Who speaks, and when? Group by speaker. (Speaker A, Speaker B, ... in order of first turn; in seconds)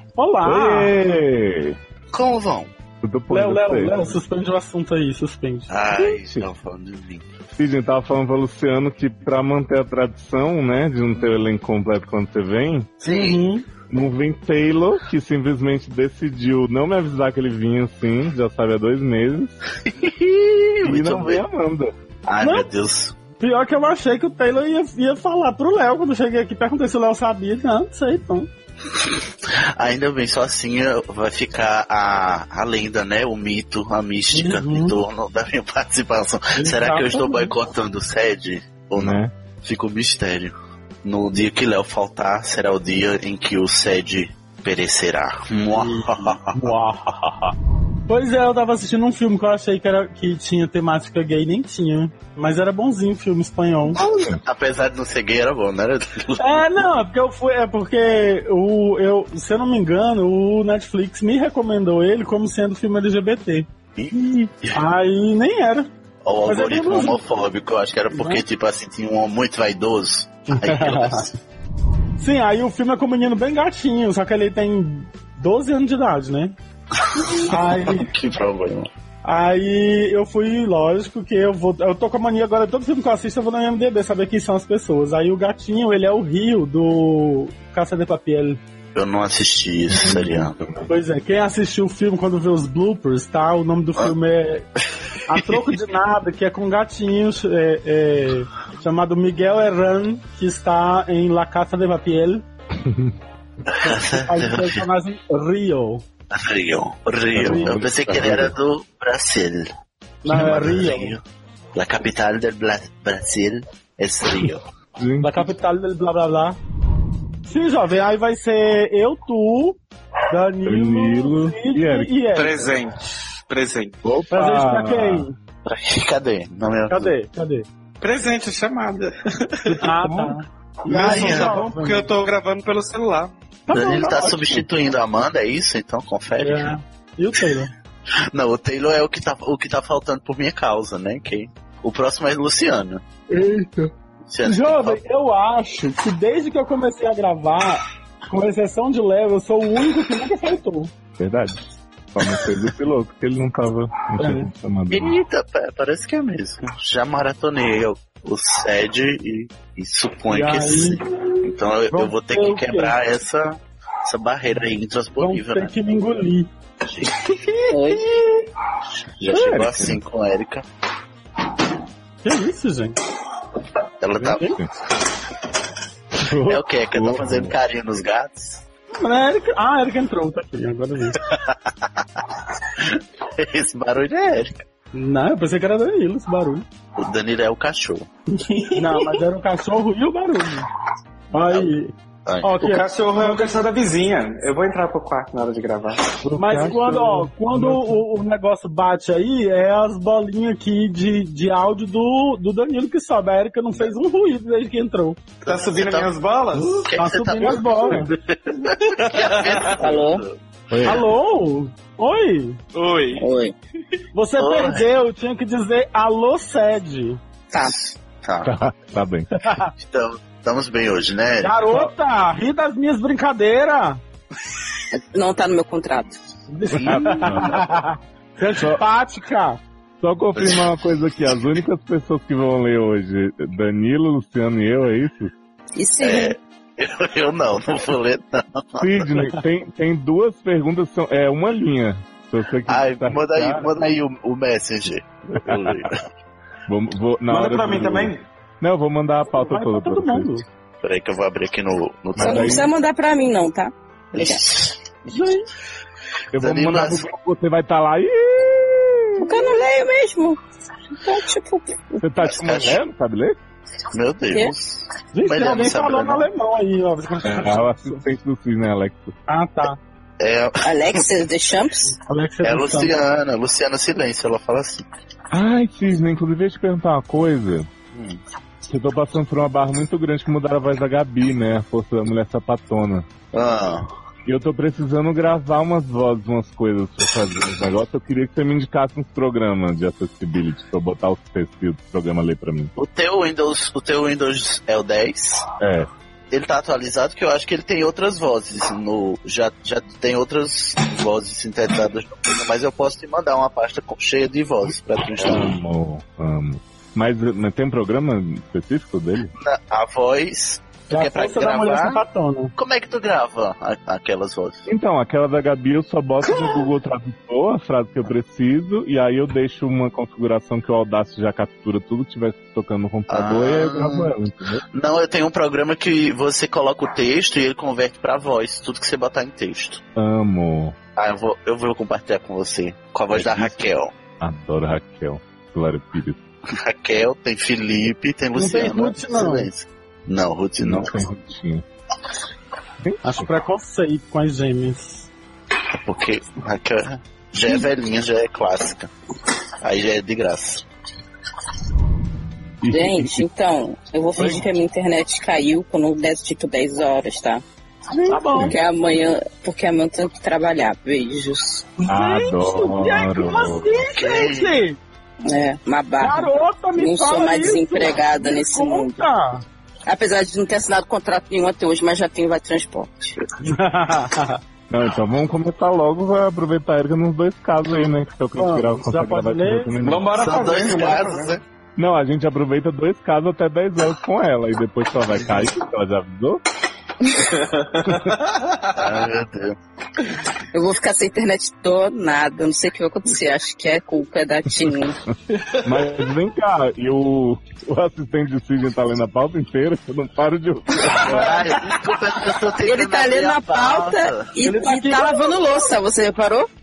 Speaker A: 0.2-1.0, 3.3-5.7, 13.1-13.7, 22.4-22.7, 23.4-28.5, 34.3-34.9, 36.6-37.5, 45.8-47.4, 48.1-54.0, 56.4-65.9, 66.5-67.2, 68.1-68.4, 70.5-71.3, 72.2-76.5, 77.4-78.1, 79.2-88.6, 90.9-94.7, 95.3-102.4, 103.9-106.0, 107.4-107.7, 110.2-111.2, 115.2-116.6, 117.5-119.8, 120.3-122.7, 124.3-125.4, 126.9-127.7, 129.7-132.1, 133.7-134.6, 136.4-137.7, 143.3-143.9, 144.4-150.9, 154.2-154.5, 160.3-161.3, 161.9-162.9, 165.2-166.5, 167.4-168.0, 172.2-173.0, 174.2-174.6, 176.2-176.6, 178.9-181.2, 184.9-186.7, 188.8-190.7, 191.3-193.6, 196.4-205.3, 207.0-208.1, 210.8-212.6, 214.1-217.2, 219.4-219.7, 221.4-224.0, 226.5-229.6, 249.3-250.4, 265.1-268.0, 269.3-269.8, 272.1-272.9, 310.9-312.5, 338.4-339.5, 343.0-345.1, 358.0-358.6, 361.8-364.8, 366.0-369.4, 373.4-374.4, 378.4-379.8, 380.5-381.0, 404.4-405.6
Speaker B: 0.4-1.8, 3.0-4.1, 6.0-6.5, 7.6-13.0, 13.9-19.6, 20.8-21.9, 39.0-39.3, 54.0-54.4, 89.9-90.9, 102.8-103.1, 107.4-108.5, 115.0-115.5, 120.6-122.2, 124.0-125.3, 130.0-130.3, 151.2-151.6, 152.2-155.2, 169.3-170.0, 174.2-174.7, 176.9-177.5, 196.2-198.0, 210.7-211.0, 218.4-219.3, 226.8-227.7, 230.0-235.3, 238.8-243.7, 245.5-245.9, 246.7-250.3, 252.2-252.7, 256.3-259.4, 262.0-263.4, 267.2-269.1, 275.3-277.7, 278.7-283.1, 284.3-292.7, 295.6-295.9, 305.2-309.3, 314.7-324.6, 329.9-330.8, 333.1-333.5, 334.2-336.2, 340.6-341.6, 342.8-343.3, 352.6-353.2, 354.2-354.5, 361.9-363.7, 374.7-380.1, 381.8-386.4, 395.6-401.4
Speaker C: 2.1-2.7, 5.7-7.3, 13.0-13.4, 19.9-21.4, 22.3-23.1, 29.8-46.6, 54.2-56.7, 64.0-64.8, 66.2-71.3, 77.1-78.9, 89.0-90.6, 103.7-104.9, 106.3-109.7, 110.3-111.2, 111.7-114.6, 125.7-127.1, 130.9-131.5, 133.7-136.7, 138.3-143.0, 144.2-145.0, 154.9-166.2, 166.9-167.2, 169.2-170.7, 174.0-174.4, 176.5-178.6, 181.2-182.2, 182.8-184.6, 186.9-188.1, 192.2-192.5, 205.4-210.4, 214.4-214.8, 218.2-218.6, 219.8-221.6, 230.4-230.6, 236.0-239.2, 242.7-246.1, 250.8-252.7, 254.1-255.2, 256.4-257.0, 262.2-262.8, 263.9-266.3, 270.2-270.9, 272.4-274.9, 277.9-278.2, 283.3-283.9, 292.8-295.5, 296.3-305.6, 309.4-312.0, 312.6-314.6, 323.1-324.1, 324.7-329.8, 331.0-333.9, 336.5-340.9, 345.8-348.9, 349.6-350.6, 363.9-364.6, 380.2-381.4, 388.7-389.6, 401.1-404.3
Speaker D: 122.3-124.0, 128.0-129.8, 130.9-133.3, 188.4-189.1, 192.6-196.1, 205.4-206.8, 208.9-209.7, 212.7-213.2, 247.3-248.2, 379.8-381.3, 387.4-388.8
Speaker E: 167.7-168.0, 209.8-210.2, 213.2-213.5, 217.5-217.8, 224.9-226.1, 235.8-236.3, 252.2-254.4, 259.2-260.4, 261.0-262.1, 270.6-272.0, 352.7-357.4, 358.4-361.7, 365.2-369.0, 369.9-373.2, 390.5-395.0, 402.6-406.5